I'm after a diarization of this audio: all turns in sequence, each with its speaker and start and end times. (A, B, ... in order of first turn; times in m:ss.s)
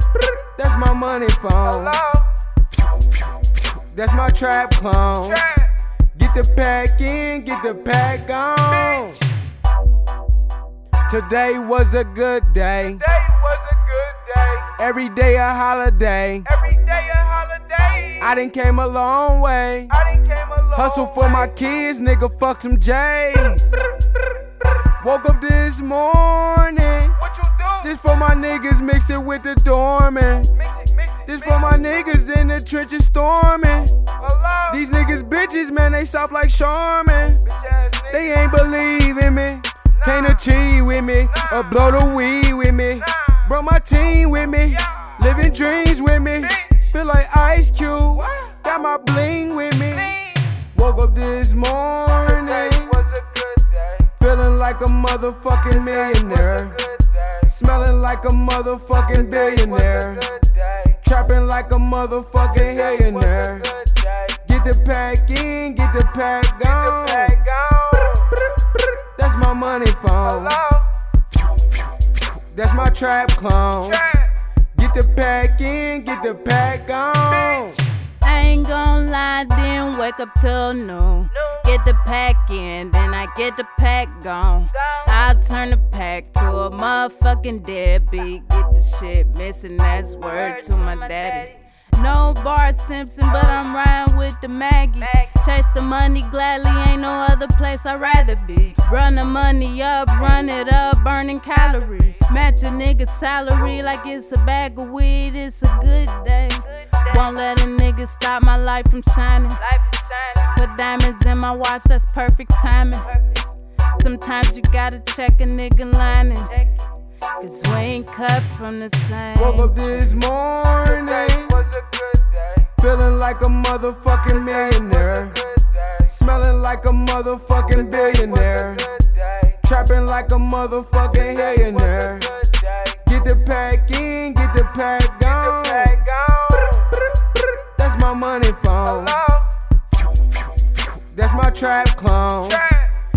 0:00.6-0:02.0 A
0:01.7-0:02.3 B
0:03.7-0:05.4 A
0:05.3-0:05.7 B
0:06.1-0:09.2 A
0:11.1-0:13.0 A
0:12.9-0:14.7 B
0:14.7-0:16.5 A
0:16.5-0:18.3 B
0:18.2-0:20.0 A
0:20.0-0:21.5 B
0:20.7-0:23.8 A
0:25.0-0:27.2 A
0:27.2-0:27.8 B
0:27.8-0:30.6 A
0:30.6-0:31.6 B
0:31.3-0:34.0 A
0:34.2-0:34.8 B
0:34.7-0:37.5 A
0:37.5-0:38.2 B
0:38.1-0:50.2 A
0:40.0-0:40.4 B
0:41.4-0:41.7 B
0:46.5-0:46.9 B
0:48.3-0:48.5 B
0:50.0-0:50.6 B
0:50.7-0:53.1 A
0:52.2-0:54.1 B
0:54.2-0:56.8 A
0:55.8-0:57.5 B
0:57.5-1:00.2 A
0:59.2-1:01.0 B
1:01.0-1:03.7 A
1:02.5-1:04.4 B
1:04.4-1:07.5 A
1:06.6-1:08.3 B
1:09.2-1:10.6 A
1:10.3-1:10.9 B
1:12.4-1:14.0 A
1:13.9-1:14.3 B
1:14.8-1:17.8 A
1:18.2-1:56.8 C
1:57.4-2:00.2 C
1:59.4-2:01.7 A
2:00.8-2:02.7 B
2:02.8-2:05.4 A
2:04.4-2:06.1 B
2:06.1-2:08.9 A
2:07.7-2:09.6 B
2:09.6-2:12.3 A
2:11.1-2:13.0 B
2:13.0-2:16.1 A
2:15.2-2:17.0 B
2:17.8-2:19.2 A
2:18.9-2:19.5 B
2:21.0-2:22.7 A
2:22.6-2:22.9 B